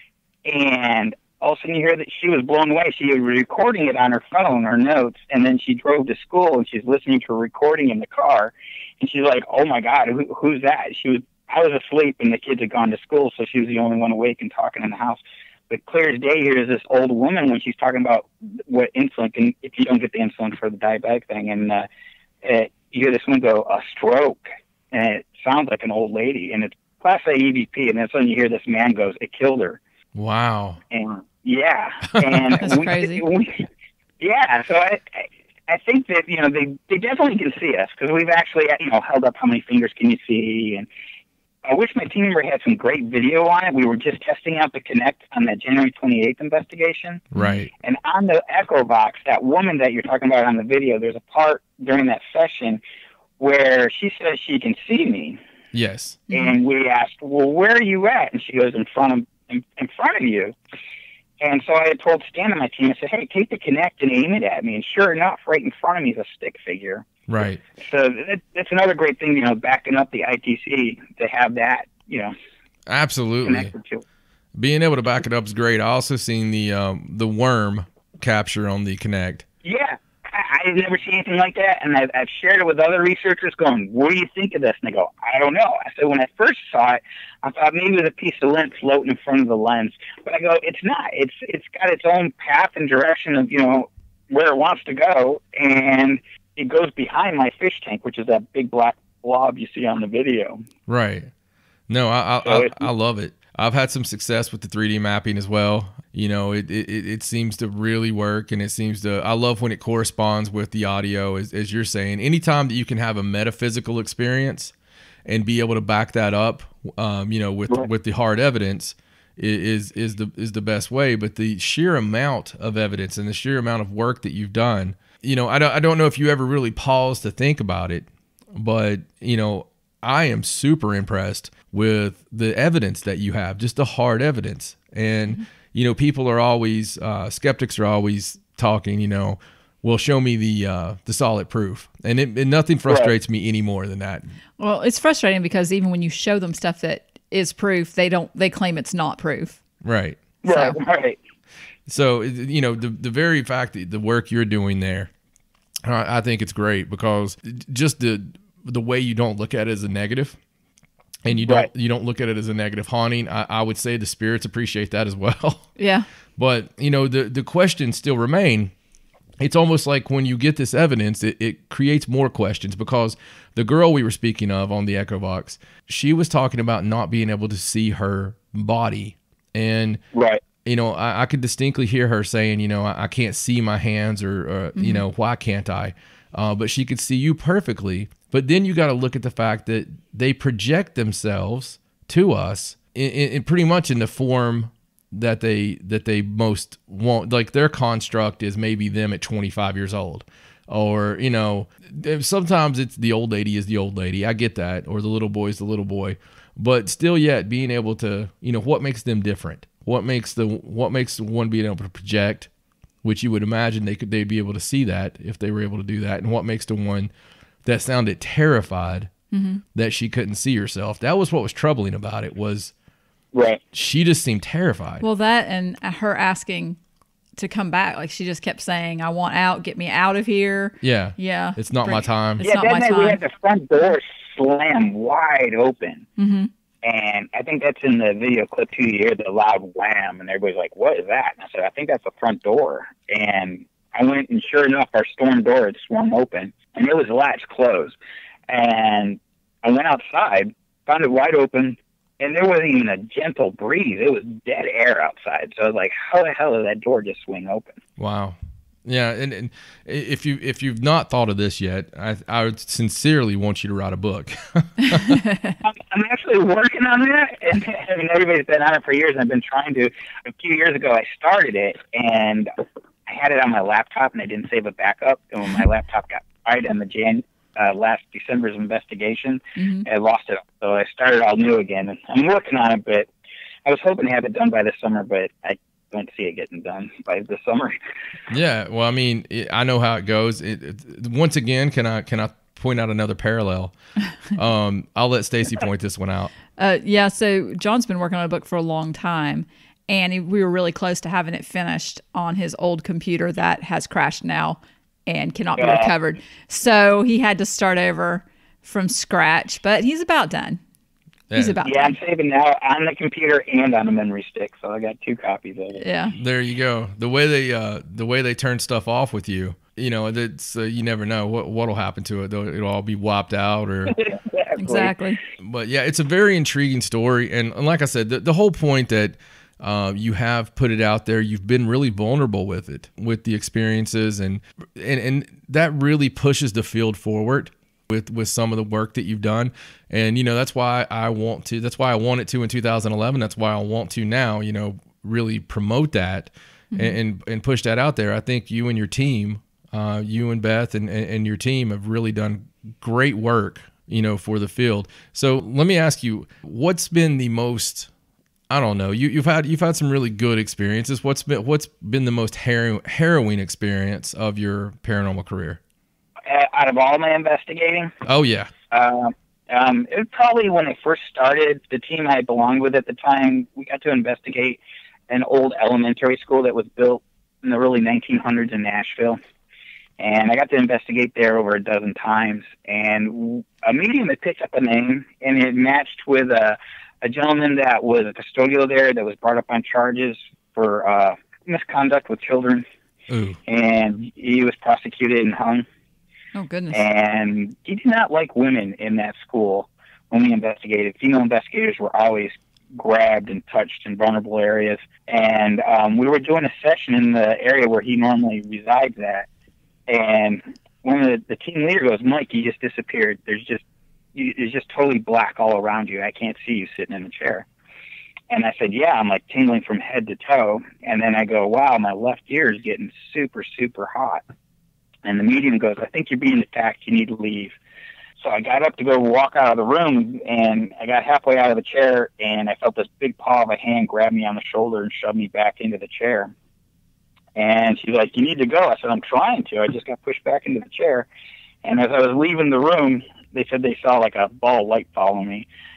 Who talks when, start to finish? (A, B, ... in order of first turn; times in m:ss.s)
0:00.5-0:21.9 A
0:22.4-0:24.4 A
0:24.9-0:29.8 A
0:30.2-0:30.8 B
0:30.9-0:33.6 A
0:32.1-0:32.6 B
0:32.6-0:33.2 C
0:34.2-0:40.9 A
0:41.6-0:47.2 A
0:47.3-0:47.7 B
0:47.8-0:52.8 A
0:53.4-0:55.4 A
0:55.7-0:56.2 B
0:56.3-1:00.6 A
1:01.4-1:07.1 A
1:07.3-1:07.6 B
1:07.8-1:12.3 A
1:12.9-1:13.7 B
1:13.4-1:14.0 A
1:14.6-1:19.5 B
1:19.6-1:40.6 A
1:40.9-1:41.3 B
1:41.9-1:54.7 B
1:42.4-1:42.8 A
1:55.3-2:24.2 B
2:24.6-2:29.6 C
2:29.8-2:30.2 B
2:30.4-2:31.2 A
2:30.4-2:30.8 C
2:31.9-2:35.1 B
2:35.9-2:40.4 B
2:41.2-2:45.7 B
2:45.8-2:46.1 C
2:46.4-2:48.7 B
2:49.4-3:00.0 B
3:00.1-3:00.4 A
3:00.6-3:32.5 B
3:04.8-3:05.0 C
3:33.0-3:37.1 B
3:37.6-3:39.1 B
3:39.3-3:39.6 C
3:39.8-3:42.7 B
3:43.3-3:43.6 A
3:43.7-3:45.0 B
3:45.0-3:46.8 C
3:47.4-3:53.2 C
3:50.8-3:52.4 B
3:52.4-3:56.1 A
3:56.2-3:56.5 C
3:56.8-4:08.0 A
4:08.5-4:17.8 A
4:18.0-4:25.2 B
4:24.9-4:25.6 C
4:25.6-4:32.5 A
4:33.1-4:43.1 A
4:39.6-4:39.9 C
4:43.6-4:47.8 A
4:48.3-4:53.7 B
4:54.3-4:56.3 B
4:56.6-5:10.6 C
5:05.6-5:05.9 A
5:11.3-5:11.6 B
5:11.3-5:12.0 C
5:11.6-5:15.8 A
5:15.8-5:16.2 C
5:16.1-5:24.0 B
5:23.9-5:25.0 A
5:24.6-5:25.2 C
5:25.4-5:57.9 B
5:46.7-5:47.0 C
5:58.5-6:05.6 B
6:06.3-6:07.9 A
6:08.0-6:08.5 B
6:08.7-6:19.2 A
6:20.0-6:32.6 A
6:33.1-6:33.4 B
6:33.5-6:35.7 A
6:36.4-6:36.8 C
6:36.7-6:49.3 A
6:49.9-6:53.6 A
6:54.2-6:57.5 A
6:58.3-7:04.2 A
7:05.0-7:07.6 A
7:08.2-7:16.3 A
7:17.4-7:21.1 A
7:21.6-7:25.5 A